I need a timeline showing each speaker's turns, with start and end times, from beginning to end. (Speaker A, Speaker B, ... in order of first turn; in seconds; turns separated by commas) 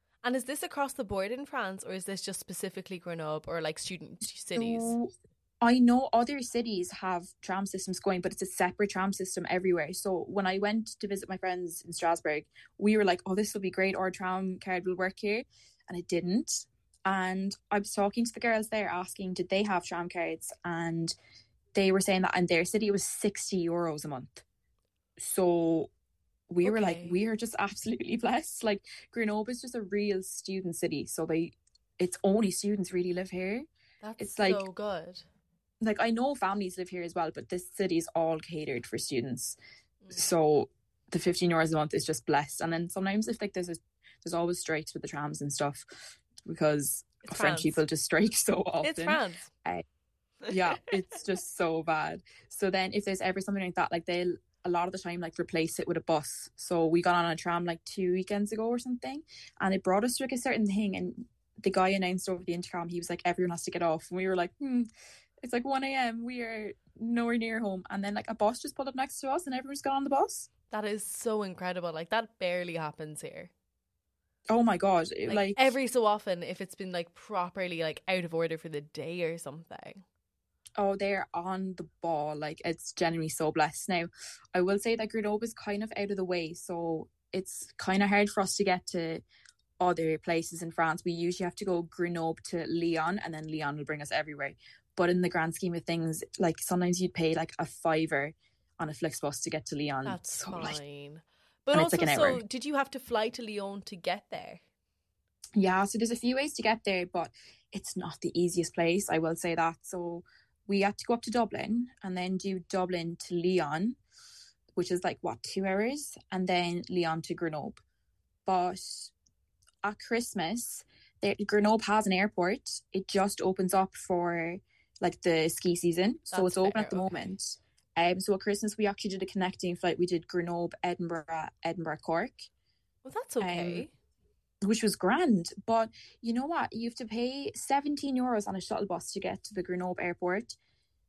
Speaker A: 0.2-5.0, Speaker B: 4.5-21.1, Speaker B: 21.7-24.4, Speaker B: 25.2-25.9, Speaker B: 26.5-33.7, Speaker A: 26.6-27.2, Speaker A: 34.0-35.2, Speaker B: 34.2-34.6, Speaker B: 35.8-39.6, Speaker B: 40.1-45.8, Speaker B: 46.4-49.8, Speaker A: 47.2-47.8, Speaker A: 48.8-49.5, Speaker B: 50.5-64.8, Speaker B: 65.4-70.5, Speaker A: 70.7-73.5, Speaker B: 74.5-75.6, Speaker A: 75.3-80.0, Speaker B: 80.8-89.2, Speaker B: 89.8-100.8, Speaker A: 100.0-104.6, Speaker B: 101.7-102.4, Speaker B: 105.5-114.0, Speaker B: 114.8-117.8, Speaker B: 118.4-119.1, Speaker B: 119.8-132.5, Speaker A: 126.3-127.3, Speaker A: 133.0-133.9, Speaker B: 133.4-133.8, Speaker B: 134.6-140.6